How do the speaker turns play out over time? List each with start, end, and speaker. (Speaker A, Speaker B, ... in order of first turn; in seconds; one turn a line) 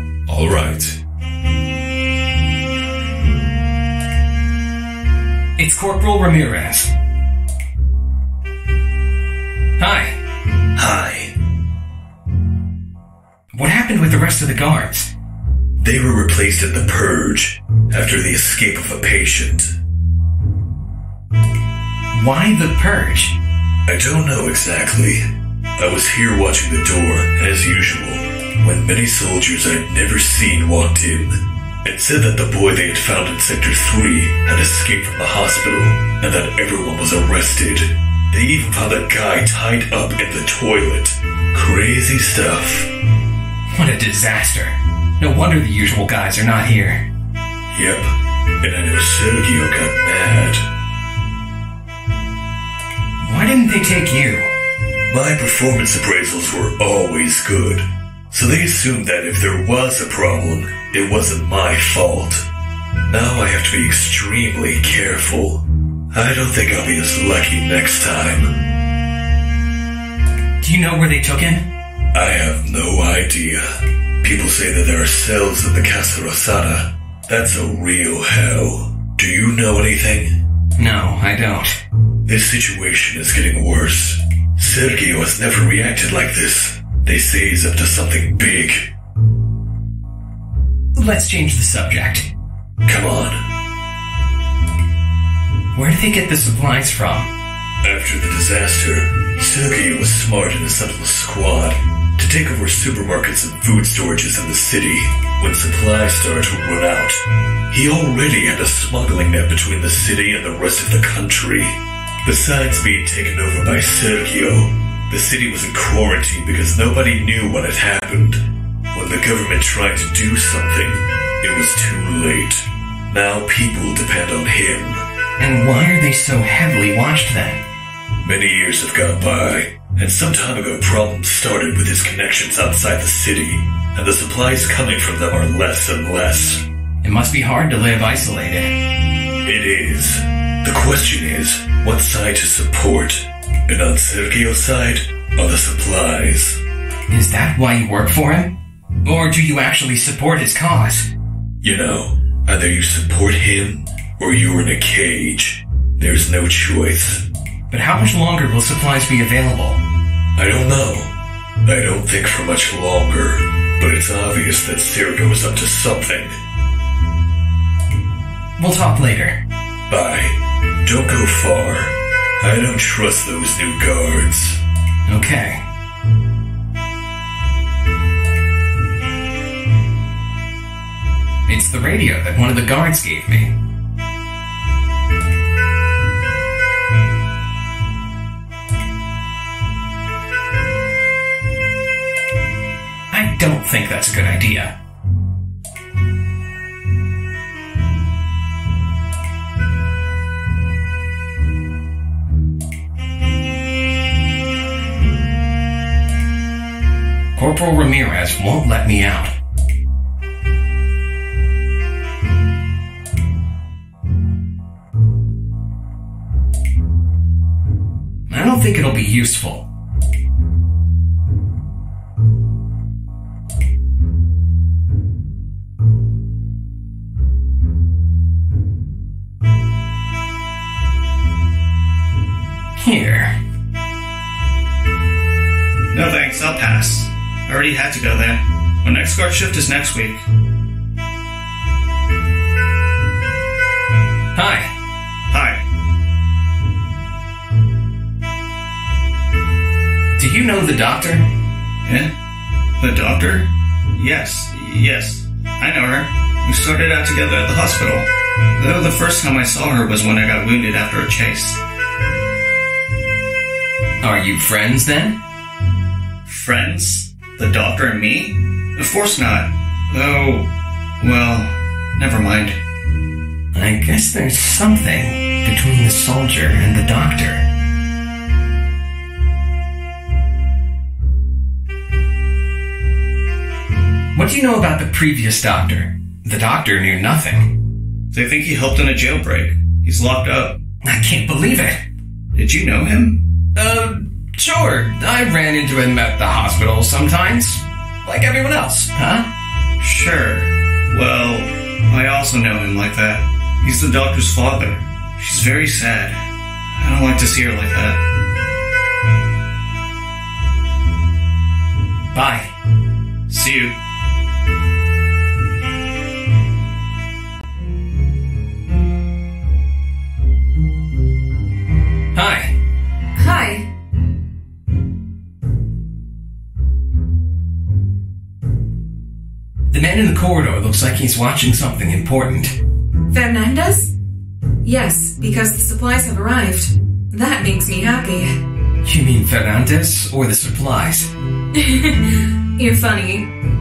Speaker A: 0.3-0.9
Speaker B: 5.6-6.9
Speaker B: 9.8-10.2
Speaker A: 10.8-11.3
Speaker B: 13.5-15.1
Speaker A: 15.8-19.7
Speaker B: 22.1-23.3
Speaker A: 23.9-25.2
Speaker A: 25.8-42.9
Speaker B: 43.7-47.0
Speaker A: 47.7-48.1
Speaker A: 48.6-50.6
Speaker B: 53.2-54.5
Speaker A: 55.1-62.4
Speaker A: 63.1-68.5
Speaker B: 70.6-71.6
Speaker A: 72.1-73.6
Speaker A: 74.2-80.3
Speaker B: 80.8-81.8
Speaker A: 82.2-88.8
Speaker B: 90.9-92.3
Speaker A: 92.8-93.4
Speaker B: 95.7-97.3
Speaker A: 97.8-107.2
Speaker A: 107.7-118.4
Speaker A: 118.9-125.0
Speaker B: 125.4-127.6
Speaker A: 128.2-136.6
Speaker B: 137.0-138.7
Speaker A: 139.4-146.6
Speaker B: 147.1-148.5
Speaker B: 149.0-151.1
Speaker A: 151.6-157.2
Speaker B: 157.7-159.8
Speaker A: 160.3-161.1
Speaker A: 161.6-166.4
Speaker B: 168.6-169.4
Speaker A: 169.9-174.6
Speaker B: 175.1-175.6
Speaker B: 181.5-183.5
Speaker B: 193.1-194.7
Speaker B: 207.3-209.3
Speaker B: 218.3-219.7
Speaker B: 232.8-233.3
Speaker C: 235.9-240.2
Speaker B: 244.3-244.7
Speaker C: 245.3-245.6
Speaker B: 250.2-251.2
Speaker C: 251.8-252.1
Speaker C: 252.8-261.6
Speaker B: 264.0-265.1
Speaker C: 266.2-270.5
Speaker C: 271.0-272.6
Speaker B: 273.5-277.4
Speaker B: 284.1-287.5
Speaker C: 288.1-290.6
Speaker B: 290.8-291.8
Speaker C: 292.3-293.2
Speaker B: 293.5-299.2
Speaker C: 299.8-308.0
Speaker B: 312.1-312.5
Speaker C: 313.3-313.8
Speaker B: 322.1-322.5
Speaker D: 323.1-323.6
Speaker B: 329.7-332.5
Speaker D: 333.1-333.9
Speaker D: 334.6-338.3
Speaker B: 338.8-341.1
Speaker D: 341.6-343.2